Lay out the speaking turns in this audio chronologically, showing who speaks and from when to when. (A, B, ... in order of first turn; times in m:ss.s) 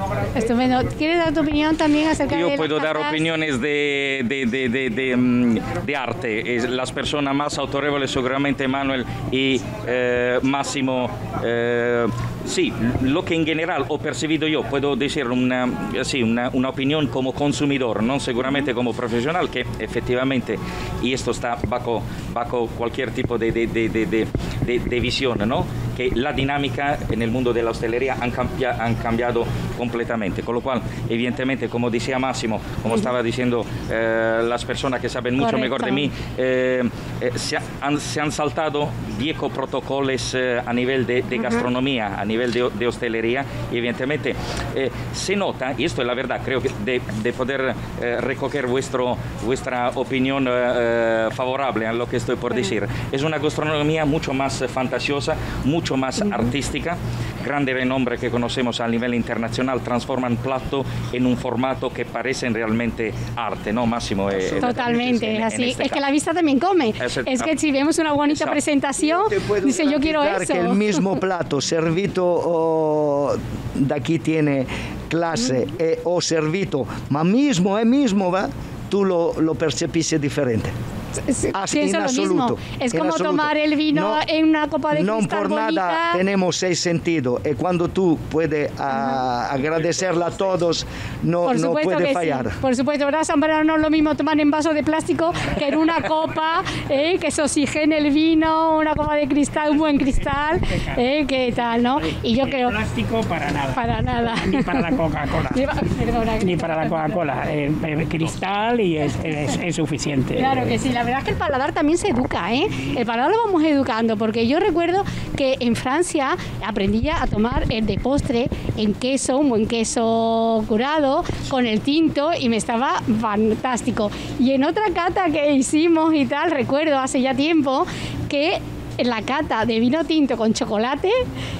0:00.3-0:03.2 A
0:02.3-1:06.0 B
0:35.4-0:36.1 A
1:04.6-1:10.8 A
1:07.0-1:07.5 B
1:08.3-1:08.6 B
1:09.0-1:20.7 C
1:21.3-1:26.2 A
1:21.5-1:24.2 C
1:24.9-1:32.6 C
1:31.4-1:42.8 A
1:40.7-1:41.0 D
1:42.4-1:45.6 D
1:43.7-1:44.9 A
1:45.5-1:47.1 A
1:46.4-1:50.7 D
1:50.4-2:11.2 A